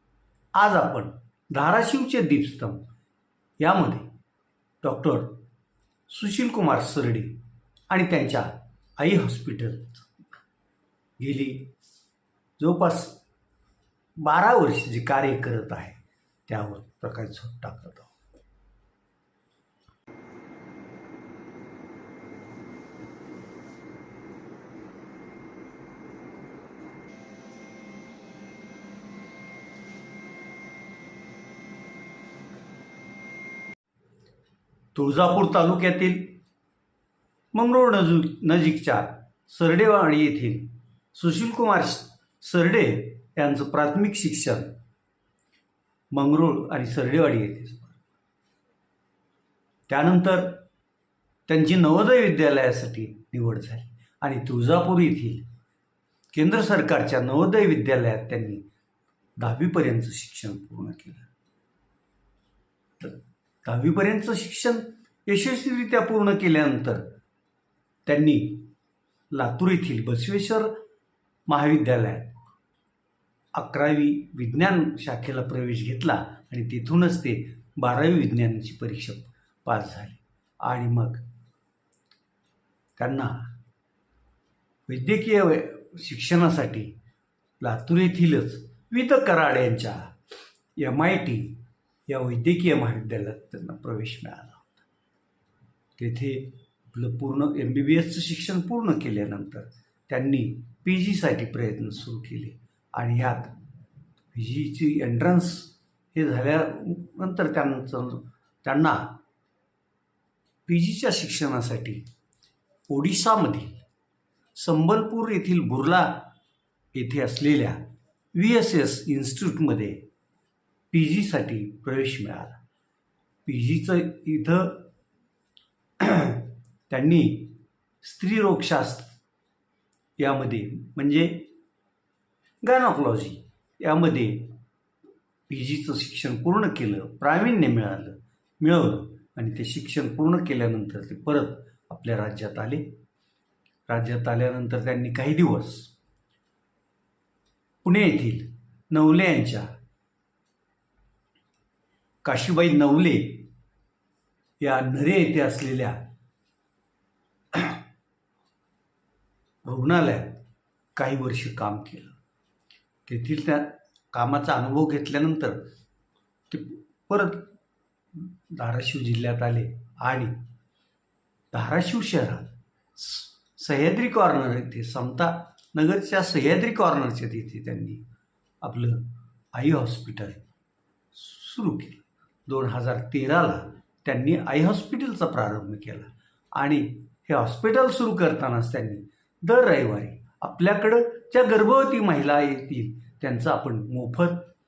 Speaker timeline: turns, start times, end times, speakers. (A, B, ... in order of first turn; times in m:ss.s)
0:00.5-0:02.8 A
0:03.6-0:04.1 A
0:04.8-0:05.4 A
0:06.1-0:10.1 A
0:11.2-0:11.7 A
0:12.6-0:13.2 A
0:14.2-0:18.1 A
0:34.9-0:36.3 A
0:37.5-0:44.7 A
0:46.1-0:48.0 A
0:49.9-0:50.6 A
0:51.5-0:55.4 A
0:56.3-0:58.6 A
0:59.4-1:01.3 A
1:03.0-1:07.0 A
1:08.0-1:08.7 A
1:09.3-1:10.7 A
1:11.5-1:12.3 A
1:13.5-1:21.2 A
1:23.0-1:23.5 A
1:24.9-1:26.9 A
1:27.6-1:30.1 A
1:30.8-1:34.8 A
1:36.0-1:43.5 A
1:44.3-1:49.2 A
1:50.6-1:52.0 A
1:52.9-1:53.8 A
1:54.6-1:56.3 A
1:56.9-1:57.8 A
1:58.3-2:00.0 A
2:00.9-2:02.6 A
2:03.4-2:04.9 A
2:06.0-2:09.1 A
2:10.2-2:11.5 A
2:12.6-2:14.6 A
2:15.5-2:22.9 A
2:23.9-2:25.9 A
2:27.8-2:29.7 A
2:32.2-2:33.5 A
2:34.6-2:36.0 A
2:37.5-2:37.8 A
2:39.6-2:40.4 A
2:41.0-2:42.2 A
2:43.1-2:45.6 A
2:46.5-2:47.5 A
2:48.1-2:50.3 A
2:51.5-2:58.0 A
2:58.6-3:00.4 A
3:01.1-3:14.5 A